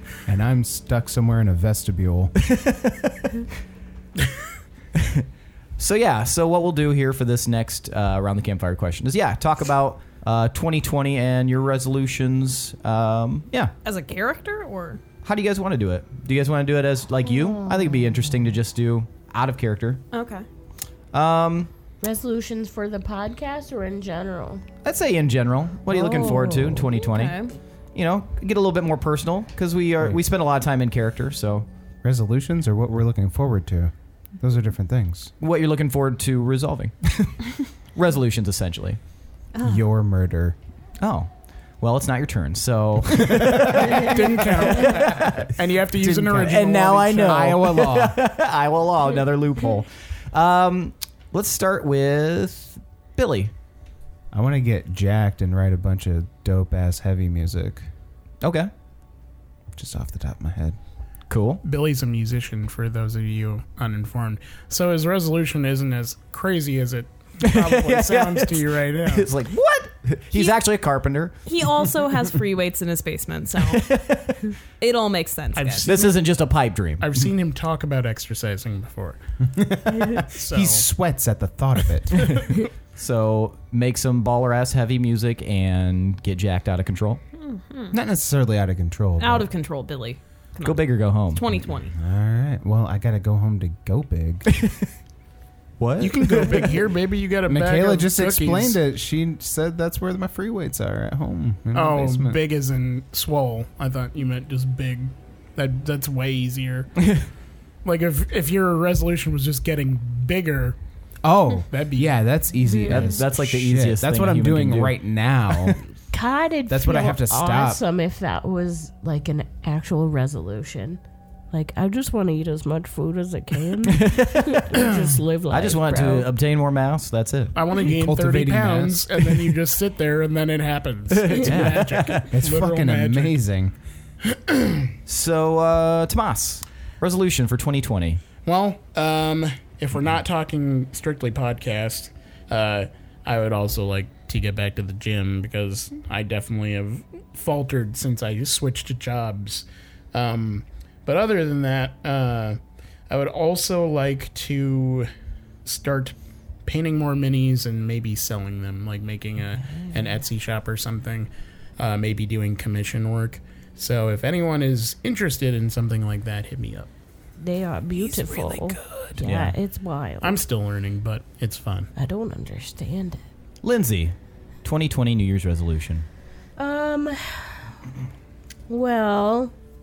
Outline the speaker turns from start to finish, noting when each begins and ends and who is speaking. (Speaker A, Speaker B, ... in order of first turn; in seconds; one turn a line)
Speaker A: 0.3-2.4
Speaker B: 2.5-3.4
Speaker B: 5.0-5.2
Speaker B: 5.8-13.7
Speaker C: 13.8-15.0
Speaker B: 15.2-20.0
Speaker D: 17.2-18.1
Speaker C: 20.1-20.4
Speaker B: 21.1-21.7
Speaker D: 22.0-24.6
Speaker B: 24.8-27.4
Speaker D: 25.9-26.9
Speaker C: 26.9-27.5
Speaker B: 27.9-31.7
Speaker A: 32.0-35.3
Speaker B: 35.4-39.0
Speaker C: 39.5-39.9
Speaker A: 39.6-40.5
Speaker B: 41.0-45.5
Speaker A: 43.6-44.0
Speaker E: 44.0-47.5
Speaker A: 46.0-48.2
Speaker B: 46.4-53.5
Speaker A: 54.3-57.9
Speaker B: 58.4-58.7
Speaker A: 59.7-60.8
Speaker B: 61.3-61.6
Speaker E: 61.6-69.3
Speaker B: 67.4-71.3
Speaker C: 70.3-70.6
Speaker C: 71.5-73.8
Speaker B: 73.6-74.5
Speaker C: 74.8-75.9
Speaker E: 75.5-76.2
Speaker B: 75.8-77.2
Speaker E: 77.0-79.2
Speaker A: 79.4-82.4
Speaker E: 80.2-80.8
Speaker B: 82.2-87.2
Speaker C: 87.4-87.9
Speaker A: 87.9-89.5
Speaker C: 89.2-91.9
Speaker B: 90.6-91.4
Speaker A: 91.9-94.5
Speaker B: 94.6-94.9
Speaker B: 95.8-96.8
Speaker E: 96.0-98.8
Speaker A: 97.5-102.4
Speaker E: 101.7-106.9
Speaker E: 107.8-110.8
Speaker A: 111.2-115.8
Speaker E: 111.7-112.1
Speaker D: 112.6-113.1
Speaker B: 112.9-115.0
Speaker D: 116.0-121.0
Speaker A: 116.7-117.8
Speaker D: 121.5-126.3
Speaker B: 123.9-124.6
Speaker B: 125.5-127.5
Speaker E: 127.5-133.3
Speaker A: 127.9-129.5
Speaker B: 131.1-132.3
Speaker A: 132.3-133.7
Speaker E: 134.2-134.9
Speaker B: 135.1-138.2
Speaker E: 138.4-155.1
Speaker E: 155.6-166.9
Speaker D: 167.4-170.4
Speaker E: 167.9-169.2
Speaker B: 169.2-169.6
Speaker E: 170.2-171.9
Speaker D: 171.9-173.2
Speaker B: 173.6-176.1
Speaker D: 176.6-177.7
Speaker D: 178.7-179.5